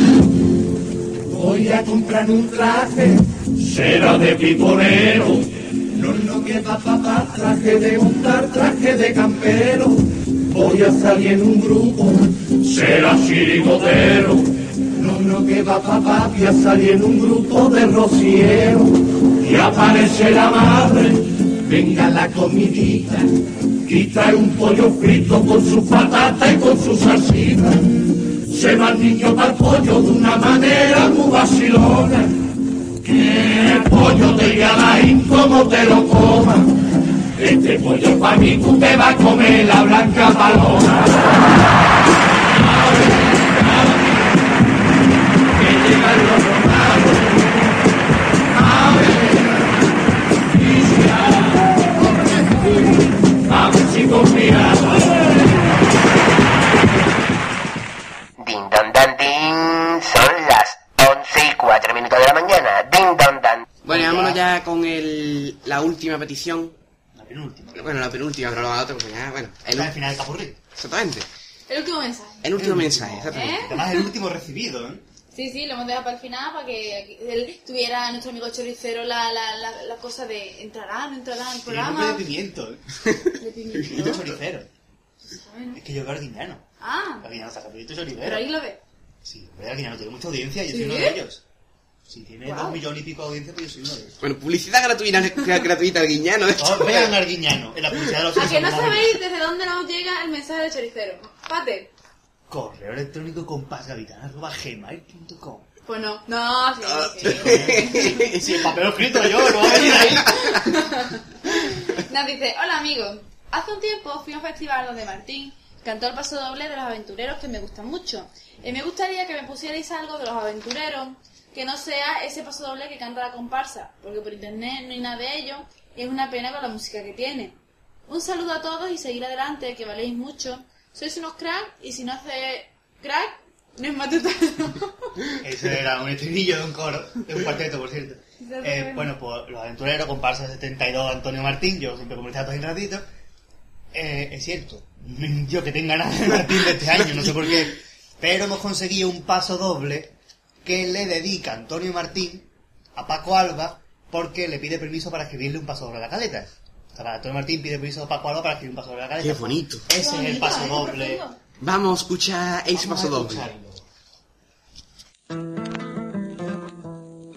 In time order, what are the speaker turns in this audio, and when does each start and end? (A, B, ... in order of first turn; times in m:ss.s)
0:01.3-0:32.5 A
0:33.0-0:36.8 A
0:37.4-0:41.3 A
0:43.2-0:43.9 A
0:45.6-0:47.4 A
0:48.6-0:49.5 A
0:50.6-0:51.5 A
0:53.5-0:55.2 A
0:58.4-1:03.7 B
1:03.8-1:06.8 C
1:03.9-1:04.4 D
1:07.2-1:07.9 D
1:07.8-1:10.0 C
1:09.7-1:10.6 D
1:10.8-1:11.3 C
1:11.7-1:12.5 E
1:12.4-1:13.7 C
1:12.6-1:15.0 D
1:13.3-1:14.0 E
1:15.3-1:22.2 E
1:21.6-1:22.8 D
1:23.4-1:24.2 E
1:23.8-1:24.2 C
1:23.9-1:24.7 D
1:25.2-1:25.8 E
1:25.8-1:26.6 D
1:26.8-1:27.3 E
1:27.2-1:28.4 D
1:28.2-1:28.8 E
1:29.2-1:31.4 D
1:30.7-1:31.2 E
1:32.1-1:34.1 D
1:32.5-1:32.8 E
1:34.2-1:37.3 C
1:36.6-1:39.2 D
1:38.4-1:41.9 E
1:42.5-1:45.7 D
1:45.9-1:48.1 E
1:46.8-1:50.6 C
1:47.2-1:50.6 D
1:50.4-2:15.2 E
2:15.4-2:23.1 D
2:18.4-2:19.1 E
2:23.9-2:41.2 D
2:39.2-2:39.9 C
2:39.9-2:41.4 E
2:41.6-2:43.5 C
2:42.7-2:43.8 D